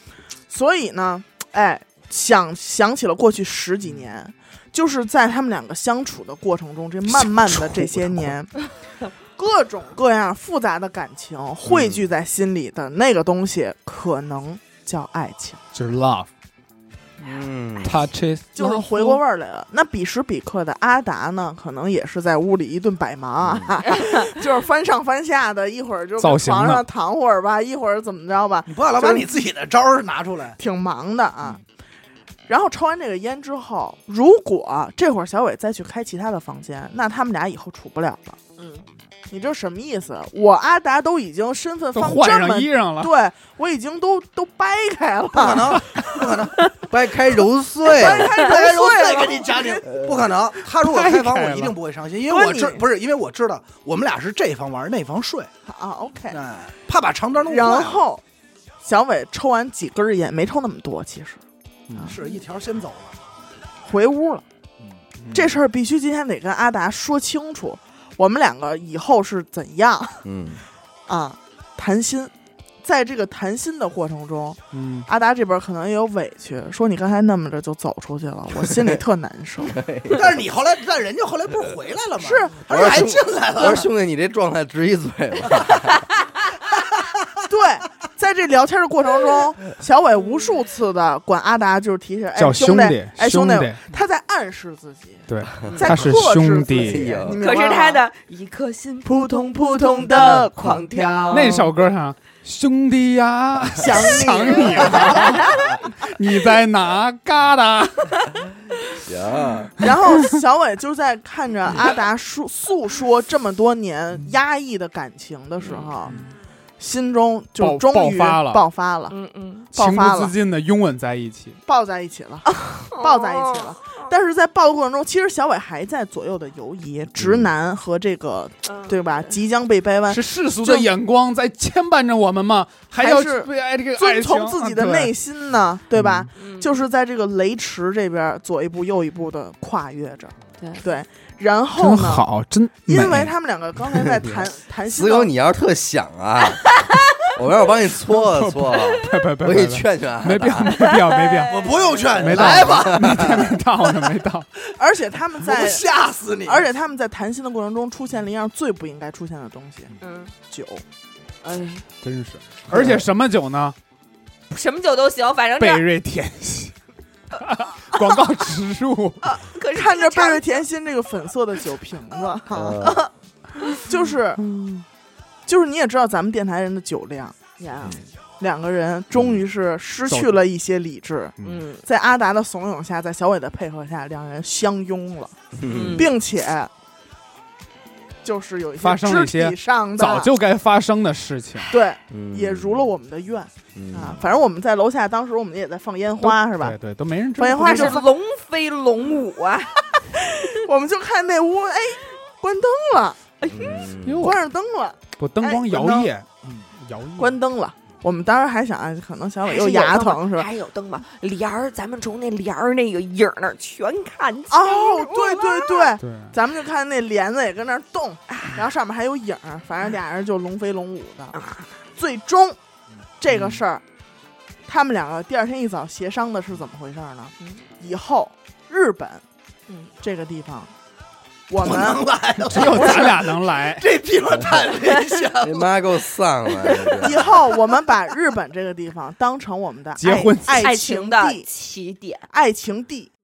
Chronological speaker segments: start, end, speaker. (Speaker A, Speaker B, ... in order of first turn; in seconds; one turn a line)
Speaker A: 0.5-8.6
Speaker B: 7.2-8.3
Speaker A: 9.4-15.6
Speaker C: 11.7-12.0
Speaker B: 15.7-16.3
Speaker C: 17.2-18.0
Speaker B: 17.8-19.2
Speaker A: 18.5-29.3
Speaker D: 23.9-24.3
Speaker B: 26.2-26.8
Speaker E: 28.7-30.6
Speaker A: 30.6-31.6
Speaker A: 32.5-38.4
Speaker D: 38.6-38.8
Speaker A: 39.3-46.1
Speaker B: 42.0-43.1
Speaker E: 45.3-46.6
Speaker C: 46.9-48.3
Speaker A: 47.9-49.9
Speaker E: 48.1-55.5
Speaker C: 49.9-50.2
Speaker B: 50.7-51.7
Speaker A: 52.3-52.8
Speaker A: 55.7-56.4
Speaker E: 56.3-58.0
Speaker A: 57.5-58.2
Speaker A: 58.8-61.4
Speaker B: 61.9-62.2
Speaker E: 62.0-63.1
Speaker A: 63.9-64.5
Speaker B: 65.2-65.6
Speaker A: 65.3-70.2
Speaker C: 70.2-70.6
Speaker A: 71.1-72.3
Speaker A: 72.8-79.8
Speaker B: 74.7-75.1
Speaker C: 79.7-80.2
Speaker E: 80.1-83.9
Speaker A: 82.2-82.6
Speaker C: 82.7-86.0
Speaker A: 87.5-98.0
Speaker B: 92.4-93.8
Speaker B: 95.3-97.2
Speaker C: 95.6-96.0
Speaker C: 96.8-97.4
Speaker D: 97.3-101.7
Speaker A: 99.0-101.7
Speaker B: 101.3-108.3
Speaker A: 103.8-105.6
Speaker D: 105.3-105.8
Speaker C: 109.1-109.7
Speaker A: 109.8-116.2
Speaker D: 115.6-115.9
Speaker A: 116.8-119.2
Speaker B: 117.6-118.6
Speaker D: 119.1-119.7
Speaker B: 119.7-121.6
Speaker A: 119.7-120.3
Speaker A: 121.7-130.9
Speaker D: 122.6-124.1
Speaker C: 127.2-127.5
Speaker D: 128.7-129.3
Speaker B: 130.1-135.1
Speaker A: 133.0-142.3
Speaker B: 136.0-136.2
Speaker D: 136.4-136.8
Speaker B: 141.8-143.3
Speaker A: 142.9-145.3
Speaker C: 144.9-150.8
Speaker D: 146.7-147.3
Speaker B: 148.1-154.5
Speaker D: 150.8-151.8
Speaker E: 151.5-153.4
Speaker C: 152.2-153.5
Speaker A: 154.8-155.8
Speaker E: 155.4-156.7
Speaker A: 156.4-159.9
Speaker D: 160.0-160.3
Speaker A: 160.5-160.8
Speaker D: 161.4-161.9
Speaker B: 162.0-163.8
Speaker D: 164.5-165.8
Speaker B: 165.6-166.7
Speaker B: 167.4-169.2
Speaker D: 169.2-170.6
Speaker A: 169.7-173.0
Speaker C: 172.5-173.0
Speaker D: 172.8-173.9
Speaker A: 173.8-174.4
Speaker B: 174.4-174.8
Speaker A: 175.5-177.4
Speaker D: 177.6-178.0
Speaker A: 178.4-186.7
Speaker C: 179.1-179.4
Speaker B: 180.1-180.4
Speaker D: 181.4-181.8
Speaker C: 185.6-186.1
Speaker D: 185.7-186.1
Speaker A: 188.2-190.3
Speaker B: 188.8-191.8
Speaker A: 191.7-196.8
Speaker C: 192.1-192.9
Speaker C: 193.8-194.2
Speaker B: 196.2-198.0
Speaker A: 197.4-198.1
Speaker D: 197.6-199.8
Speaker A: 200.2-203.2
Speaker D: 203.4-203.9
Speaker C: 203.5-204.3
Speaker B: 204.0-204.4
Speaker A: 204.2-205.6
Speaker B: 205.2-207.4
Speaker E: 205.6-206.6
Speaker A: 207.2-210.5
Speaker D: 209.4-215.9
Speaker A: 214.5-221.4
Speaker B: 216.0-216.3
Speaker D: 221.3-221.7
Speaker A: 222.0-222.6
Speaker A: 223.2-223.8
Speaker B: 223.3-223.6
Speaker A: 224.7-229.2
Speaker A: 230.0-230.7
Speaker A: 231.5-232.1
Speaker E: 231.6-235.7
Speaker B: 232.5-233.8
Speaker A: 232.7-233.0
Speaker C: 235.4-237.3
Speaker A: 237.0-241.5
Speaker B: 240.0-240.6
Speaker D: 240.4-242.2
Speaker A: 242.3-243.1